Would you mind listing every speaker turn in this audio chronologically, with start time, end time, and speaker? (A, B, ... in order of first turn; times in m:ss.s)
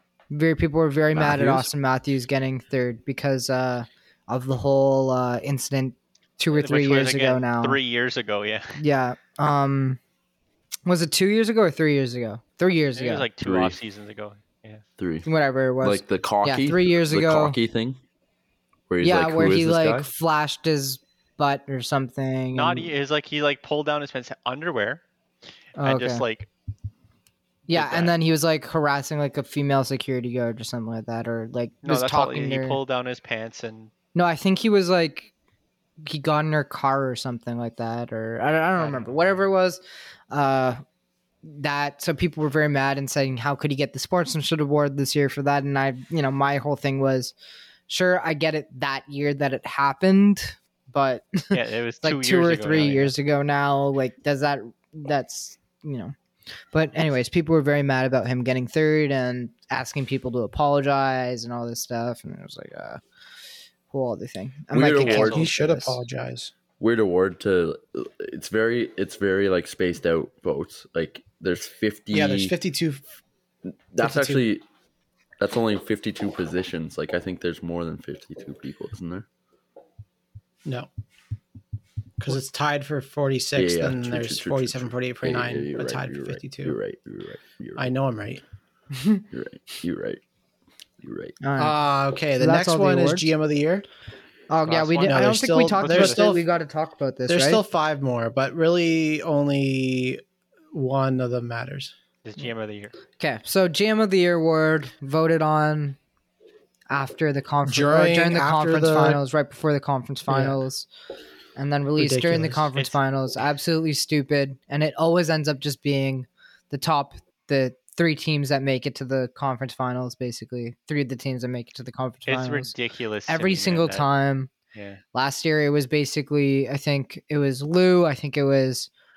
0:00.3-0:07.8 A
0:01.1-0:01.7 B
0:06.5-0:08.8 C
0:08.8-0:10.0 A
0:10.8-0:13.3 A
0:13.0-0:14.8 C
0:13.4-0:13.8 B
0:15.0-0:15.3 B
0:15.2-0:17.6 A
0:15.8-0:18.0 B
0:18.9-0:20.1 B
0:19.0-0:22.9 A
0:22.5-0:25.0 C
0:25.8-0:26.2 A
0:25.8-0:26.5 C
0:27.7-0:32.8 A
0:27.7-0:28.1 C
0:31.8-0:33.9 C
0:34.1-0:35.3 A
0:36.0-0:40.8 A
0:38.8-0:39.3 C
0:41.4-0:47.3 A
0:47.9-0:56.1 A
0:51.5-0:53.1 C
0:56.7-1:03.0 A
1:03.9-1:06.0 A
1:04.7-1:05.3 B
1:05.0-1:05.5 C
1:05.1-1:06.5 D
1:06.8-1:12.5 B
1:12.1-1:13.0 D
1:13.9-1:14.6 B
1:14.0-1:14.4 D
1:15.4-1:19.3 B
1:22.2-1:26.8 D
1:23.5-1:27.9 B
1:27.8-1:28.4 D
1:28.9-1:29.2 A
1:29.3-1:30.2 B
1:31.0-1:31.4 B
1:31.4-1:31.8 A
1:31.6-1:33.9 D
1:32.4-1:33.3 A
1:34.5-1:37.6 A
1:34.7-1:36.3 C
1:35.0-1:36.4 D
1:37.3-1:40.2 D
1:40.7-1:41.9 D
1:42.2-1:42.9 C
1:43.2-1:46.0 A
1:46.9-1:50.9 A
1:47.6-1:49.2 D
1:50.3-1:50.6 D
1:51.6-2:02.7 A
1:52.0-1:52.7 D
2:02.3-2:04.1 C
2:03.3-2:04.5 A
2:04.7-2:05.0 C
2:05.1-2:08.9 A